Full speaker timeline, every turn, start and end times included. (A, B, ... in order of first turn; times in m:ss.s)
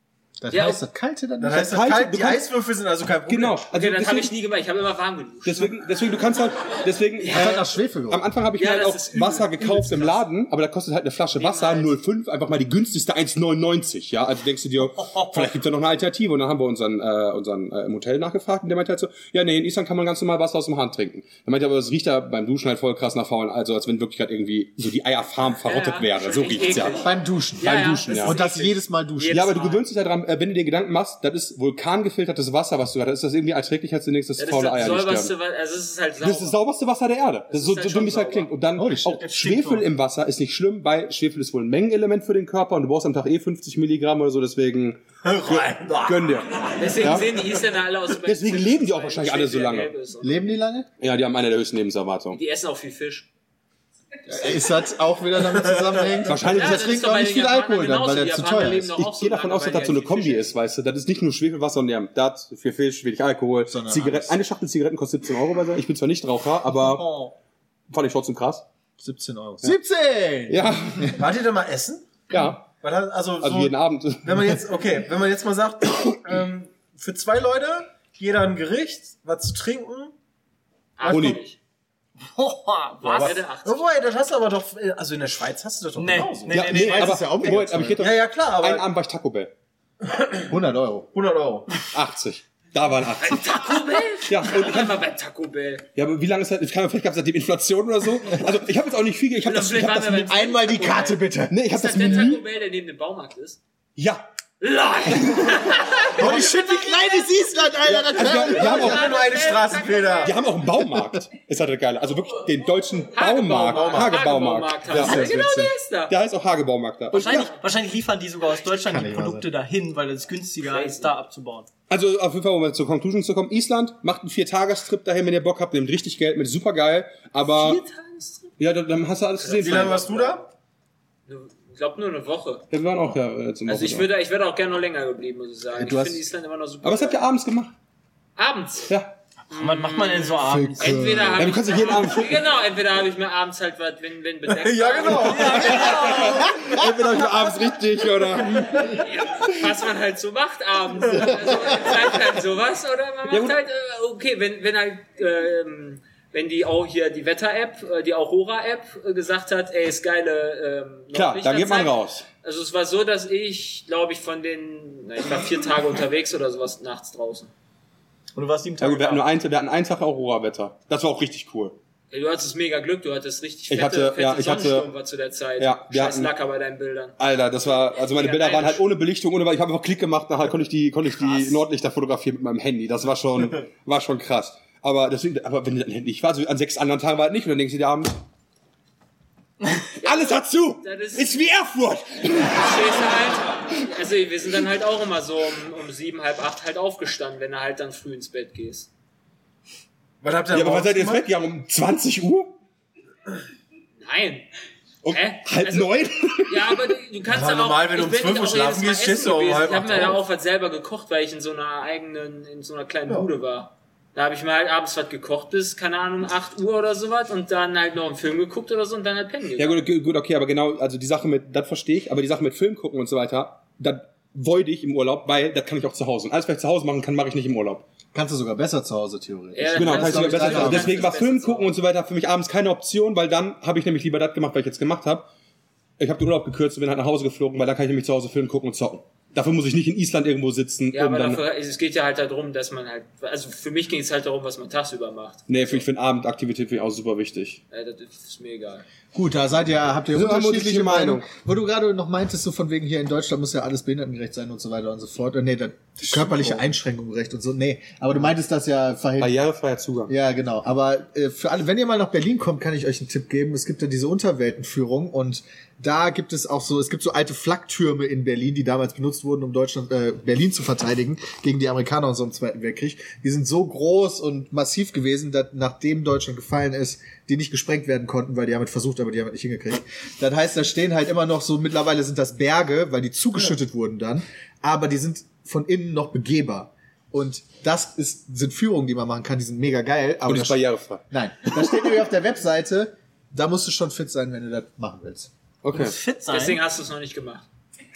0:00.4-0:01.8 A
0:00.5-0:00.8 B
0:01.4-0:03.6 C
0:01.6-0:02.4 D
0:03.3-0:04.3 D
0:03.7-0:05.7 B
0:05.4-0:27.0 D
0:07.3-0:08.3 A
0:08.6-0:10.2 B
0:11.4-0:11.9 B
0:15.0-0:15.5 E
0:25.6-0:29.8 B
0:27.0-0:29.4 A
0:27.6-0:28.4 D
0:29.3-0:35.3 D
0:34.4-0:36.6 B
0:36.2-0:47.3 D
0:37.5-0:38.5 B
0:38.8-0:39.2 A
0:39.0-0:39.9 E
0:45.2-0:46.3 C
0:46.7-0:50.5 B
0:48.2-0:49.9 D
0:50.2-0:50.9 A
0:51.0-0:52.4 D
0:52.3-0:53.3 B
0:54.3-0:59.0 A
0:55.6-0:56.2 C
0:56.2-0:56.9 D
0:56.5-1:00.5 B
0:58.9-1:07.1 D
1:03.7-1:04.3 A
1:06.7-1:07.3 E
1:07.9-1:08.6 D
1:09.0-1:11.2 A
1:10.5-1:11.2 D
1:11.2-1:20.1 C
1:12.3-1:12.7 D
1:13.4-1:14.4 D
1:21.0-1:21.6 B
1:21.1-1:21.4 D
1:22.2-1:23.3 E
1:23.0-1:23.9 B
1:23.6-1:26.9 C
1:26.0-1:27.4 E
1:26.5-1:29.5 D
1:26.8-1:28.1 A
1:28.0-1:28.9 C
1:30.0-1:30.5 C
1:30.5-1:31.1 A
1:31.1-1:31.7 C
1:31.9-1:33.4 D
1:33.2-1:35.8 B
1:34.3-1:34.9 D
1:35.9-1:40.3 D
1:39.4-1:43.6 B
1:40.2-1:42.3 A
1:41.5-1:42.4 D
1:44.0-1:44.2 D
1:44.6-1:50.4 B
1:46.1-1:48.9 A
1:47.9-1:49.1 D
1:48.6-1:50.4 C
1:50.2-1:55.5 D
1:53.1-1:56.1 B
1:53.7-1:54.1 C
1:55.0-1:55.7 A
1:56.1-1:57.5 D
1:57.1-2:01.7 E
1:57.2-1:57.5 B
1:58.8-1:59.5 A
2:00.6-2:01.1 B
2:01.9-2:07.8 D
2:07.4-2:08.6 B
2:08.6-2:10.1 D
2:09.4-2:10.5 B
2:09.6-2:10.4 C
2:11.3-2:12.6 B
2:12.7-2:14.1 D
2:13.7-2:17.2 B
2:15.7-2:16.2 A
2:16.8-2:17.7 D
2:18.4-2:18.9 B
2:18.9-2:19.1 D
2:19.5-2:21.1 E
2:19.5-2:26.3 B
2:20.4-2:21.4 A
2:21.4-2:22.4 D
2:24.5-2:26.0 C
2:25.1-2:26.6 E
2:25.5-2:29.5 D
2:28.9-2:47.5 B
2:33.3-2:33.6 D
2:41.1-2:42.2 D
2:48.3-2:49.3 E
2:48.8-2:51.8 D
2:52.1-2:57.2 B
2:53.7-2:54.9 D
2:55.6-2:56.3 D
2:57.2-3:08.1 D
2:57.7-2:58.8 B
3:10.0-3:11.3 B
3:10.0-3:12.7 D
3:12.3-3:18.9 B
3:20.2-3:21.2 C
3:20.5-3:22.5 D
3:24.0-3:24.4 B
3:25.0-3:26.9 D
3:25.1-3:39.8 B
3:27.3-3:30.2 C
3:39.6-3:47.8 D
3:48.1-3:51.1 A
3:49.5-3:51.7 B
3:49.7-3:55.3 D
3:56.0-4:01.4 D
4:00.9-4:05.8 B
4:05.5-4:07.6 D
4:07.7-4:08.8 B
4:09.1-4:19.3 A
4:10.1-4:11.3 D
4:16.2-4:16.6 C
4:19.2-4:20.1 D
4:20.1-4:55.3 A
4:50.2-4:51.0 D
4:55.6-4:56.0 D
4:55.7-4:56.6 E
4:56.3-4:57.4 B